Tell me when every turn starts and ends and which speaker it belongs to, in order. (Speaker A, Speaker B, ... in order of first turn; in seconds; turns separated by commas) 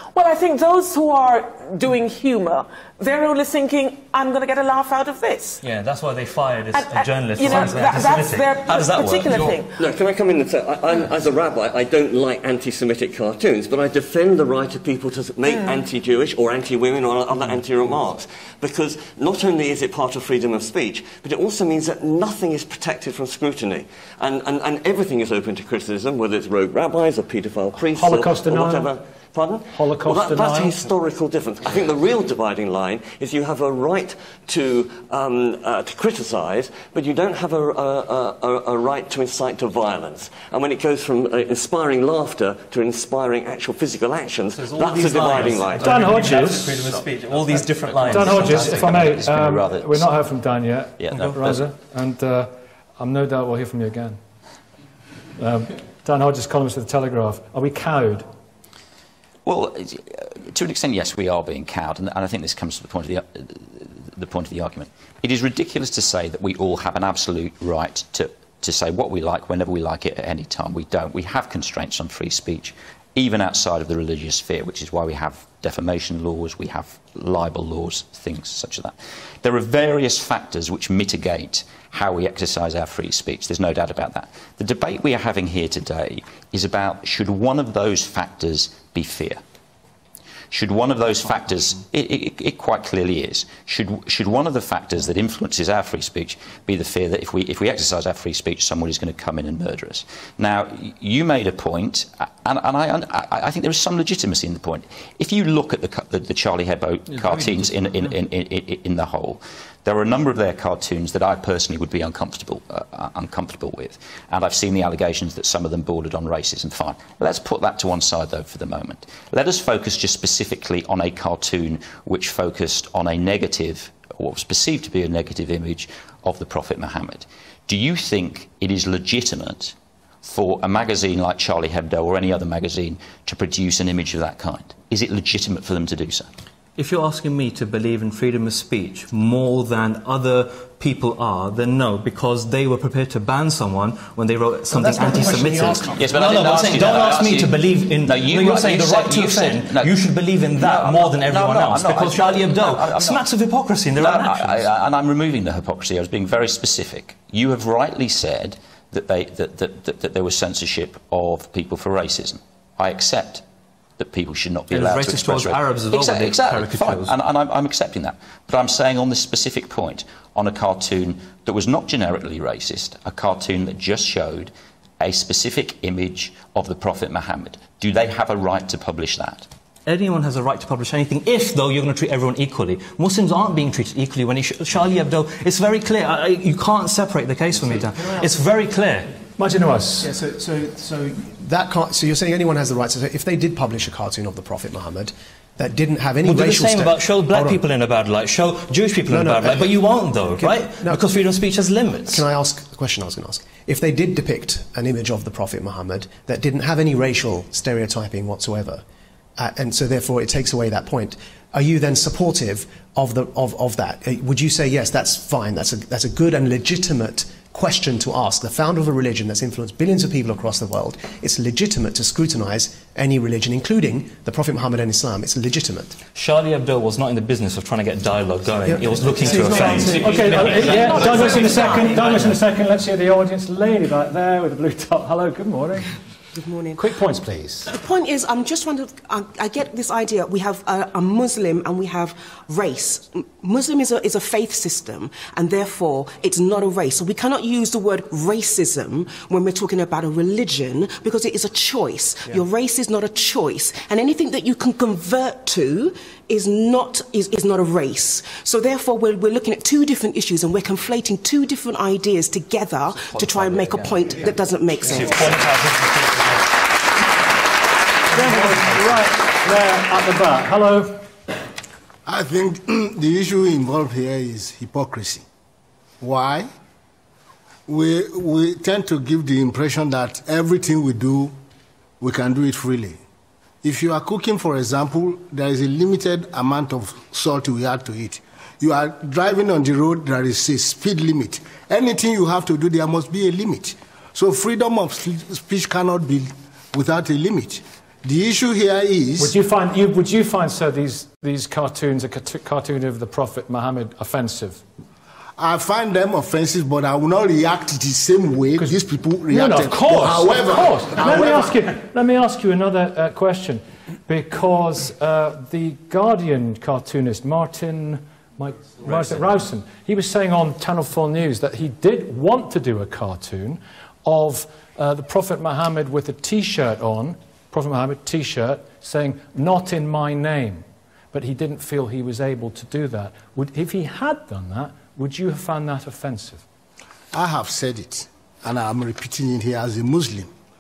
Speaker A: 0.1-5.6, Speaker B: 5.6-9.5, Speaker A: 6.7-9.7, Speaker C: 9.8-46.3, Speaker A: 15.5-15.8, Speaker D: 27.9-28.9, Speaker D: 29.7-30.8, Speaker B: 44.6-49.1, Speaker D: 45.8-46.8, Speaker E: 48.0-50.2, Speaker D: 48.1-54.2, Speaker E: 51.0-51.7, Speaker B: 51.2-51.5, Speaker D: 55.4-58.3, Speaker E: 59.5-89.4, Speaker E: 90.5-136.3, Speaker B: 107.1-108.1, Speaker B: 136.8-154.7, Speaker F: 144.7-146.9, Speaker E: 146.0-153.2, Speaker E: 154.0-163.4, Speaker E: 164.0-179.5, Speaker B: 164.7-167.1, Speaker B: 179.9-189.1, Speaker F: 187.8-188.3, Speaker D: 189.4-190.1, Speaker F: 190.0-197.6, Speaker B: 196.2-202.2, Speaker F: 199.1-201.0, Speaker F: 202.1-208.8, Speaker F: 209.4-226.0, Speaker B: 226.2-232.4, Speaker F: 228.7-230.3, Speaker D: 230.0-235.9, Speaker G: 230.4-232.0, Speaker G: 236.3-237.0, Speaker D: 236.8-237.7, Speaker G: 237.7-265.5, Speaker B: 262.9-266.4, Speaker D: 268.1-271.0, Speaker B: 268.2-268.9, Speaker H: 272.1-275.2, Speaker H: 276.0-276.5, Speaker H: 277.7-281.3, Speaker H: 282.0-283.0, Speaker H: 283.6-299.4, Speaker D: 299.2-304.6, Speaker H: 305.4-311.6, Speaker D: 308.6-336.4, Speaker H: 337.1-340.3